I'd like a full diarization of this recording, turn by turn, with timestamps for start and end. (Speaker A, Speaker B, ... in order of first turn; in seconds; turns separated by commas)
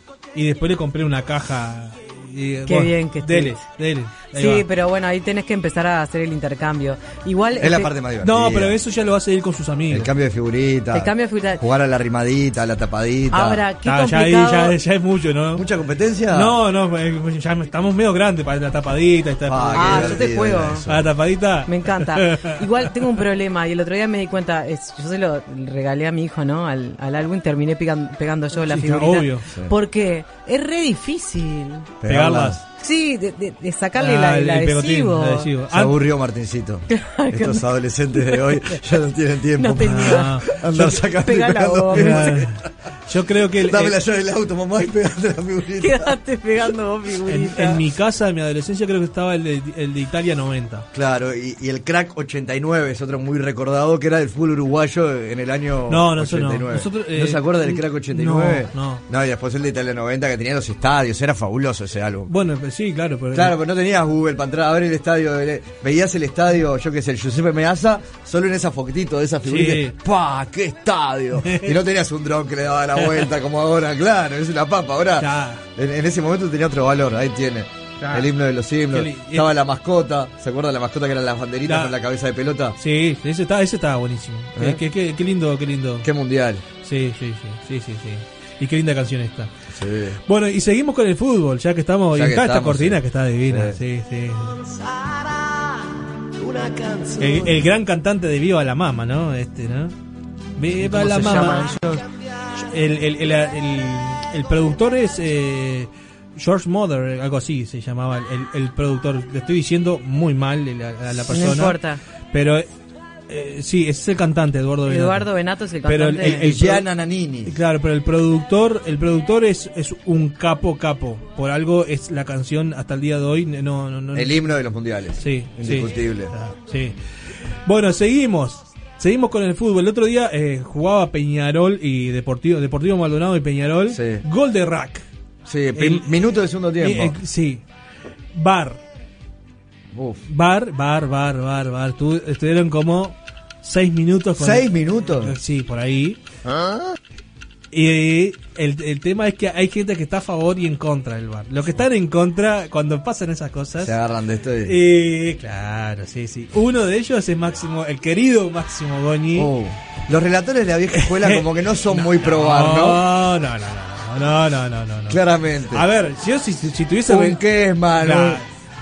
Speaker A: 0.3-4.7, Speaker B: 2.7-3.6, Speaker B: 4.3-7.9, Speaker C: 7.6-8.8, Speaker A: 8.2-10.1, Speaker C: 9.9-13.6, Speaker B: 10.9-11.6, Speaker B: 13.3-14.8, Speaker A: 13.8-15.6, Speaker C: 15.5-16.6, Speaker A: 16.3-20.3, Speaker C: 19.5-21.1, Speaker B: 19.7-20.8, Speaker A: 20.9-22.6, Speaker B: 21.7-31.9, Speaker A: 28.7-29.5, Speaker C: 32.0-32.6, Speaker A: 32.1-32.6, Speaker B: 32.7-35.5, Speaker A: 34.0-36.0, Speaker C: 35.7-42.5, Speaker B: 36.9-38.8, Speaker B: 39.6-40.4, Speaker A: 39.8-41.0, Speaker B: 41.0-42.4, Speaker A: 41.9-44.0, Speaker C: 43.6-46.1, Speaker B: 45.8-47.8, Speaker A: 47.3-50.9, Speaker C: 50.9-62.3, Speaker A: 55.9-59.0, Speaker A: 62.3-63.6, Speaker C: 63.3-82.8, Speaker A: 69.5-70.0, Speaker A: 71.4-71.8, Speaker A: 75.2-75.6, Speaker A: 78.0-78.3, Speaker A: 78.9-79.5, Speaker A: 81.7-81.9, Speaker A: 82.8-86.1, Speaker C: 84.6-84.8, Speaker C: 86.0-86.6, Speaker A: 86.8-89.5, Speaker C: 89.7-90.2, Speaker A: 90.3-94.6, Speaker C: 92.1-93.8, Speaker A: 97.2-100.0, Speaker A: 100.6-101.7, Speaker B: 101.0-102.0, Speaker A: 102.5-111.8, Speaker B: 111.3-112.0, Speaker A: 112.3-112.7, Speaker A: 113.3-115.3, Speaker B: 114.9-116.5, Speaker A: 115.8-116.9, Speaker C: 116.2-117.5, Speaker A: 117.5-124.4, Speaker C: 124.1-126.3, Speaker A: 125.2-127.0, Speaker A: 127.7-135.1, Speaker C: 133.9-134.2, Speaker C: 135.5-137.2, Speaker A: 135.7-136.1, Speaker A: 136.8-137.6, Speaker A: 138.3-138.8, Speaker C: 139.9-140.2, Speaker A: 140.3-146.2, Speaker C: 144.4-145.3, Speaker A: 147.7-153.9, Speaker C: 153.8-154.8, Speaker A: 154.7-159.5, Speaker C: 159.3-163.0, Speaker A: 161.0-167.4, Speaker C: 165.1-165.9, Speaker C: 167.1-168.4, Speaker A: 167.9-168.5